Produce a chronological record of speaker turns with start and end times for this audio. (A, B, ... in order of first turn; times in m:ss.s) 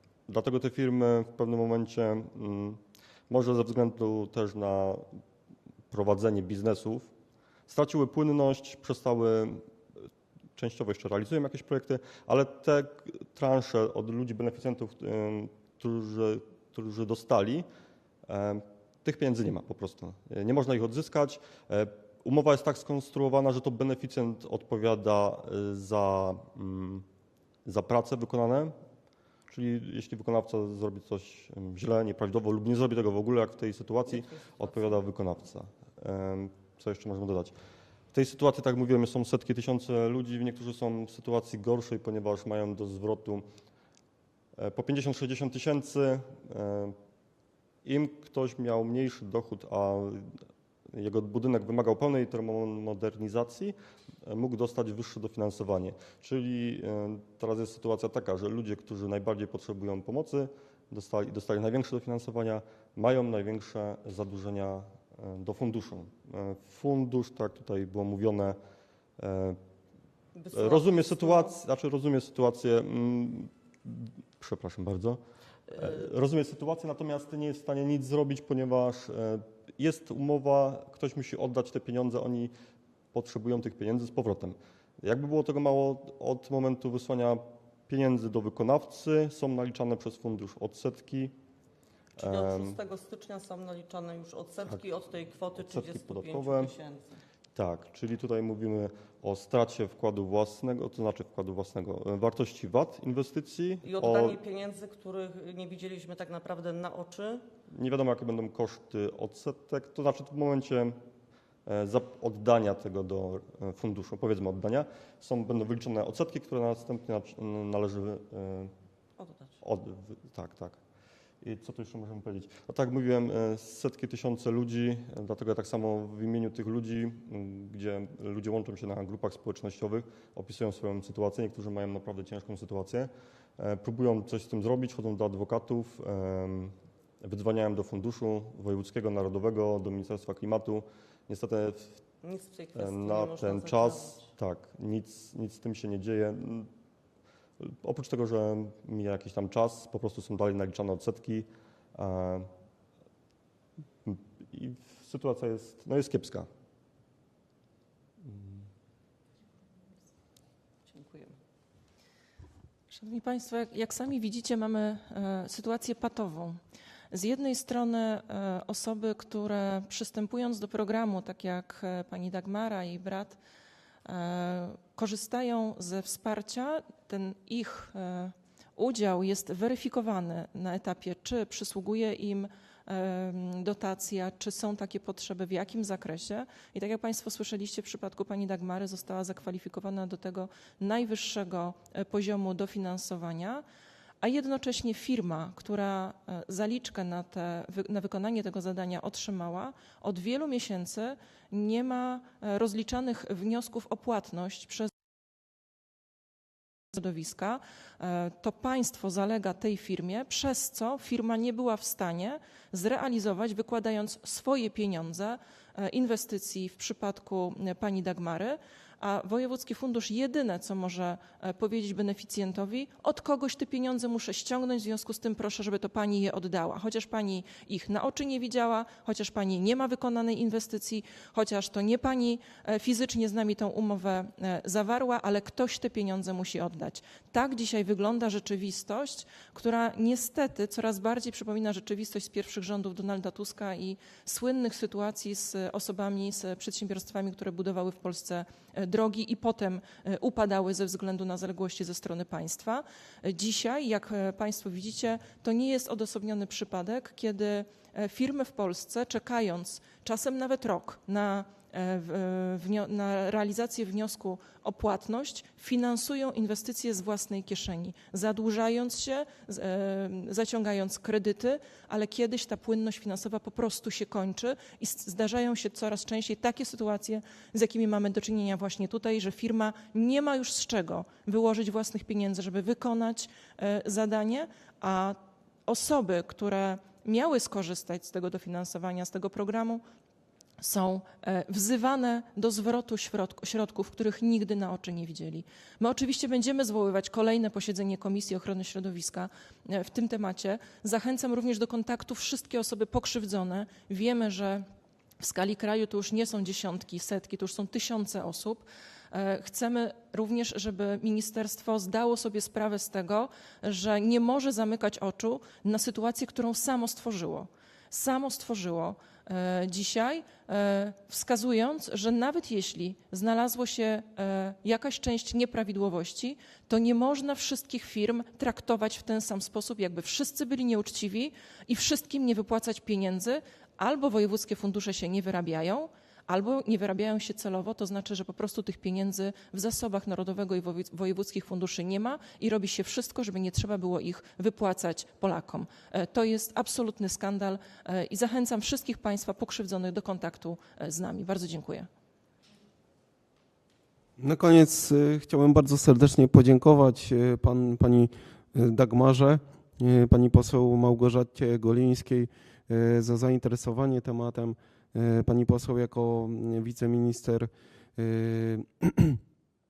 0:00.3-0:05.1 A
0:05.9-0:07.1 A
0:07.7-0:09.6 A
0:10.6-0:17.6 A
0:18.3-0:27.0 A
0:27.6-0:28.7 A
0:29.5-0:37.5 A
0:34.1-0:35.0 B
0:38.1-0:43.4 A
0:44.6-0:47.0 A
0:47.8-0:50.4 A
0:50.9-1:08.6 A
1:09.2-1:09.6 A
1:10.3-1:11.6 B
1:10.5-1:22.5 A
1:23.1-1:31.3 A
1:32.2-1:37.2 B
1:32.2-1:32.8 A
1:35.6-1:36.7 A
1:37.6-1:44.4 A
1:43.8-1:47.4 B
1:47.7-1:51.0 A
1:51.6-1:58.7 A
1:59.2-1:59.6 B
1:59.6-2:00.8 A
2:01.4-2:22.0 A
2:22.2-2:24.3 B
2:22.7-2:26.7 A
2:27.6-2:32.5 A
2:34.0-2:36.5 A
2:38.2-2:38.6 A
2:40.9-2:41.4 B
2:42.9-2:46.6 C
2:47.1-2:53.4 C
2:54.0-3:13.6 C
3:14.2-3:24.9 C
3:26.9-4:49.8 C
4:50.6-5:04.6 C
5:05.2-5:51.9 C
5:54.2-6:09.2 D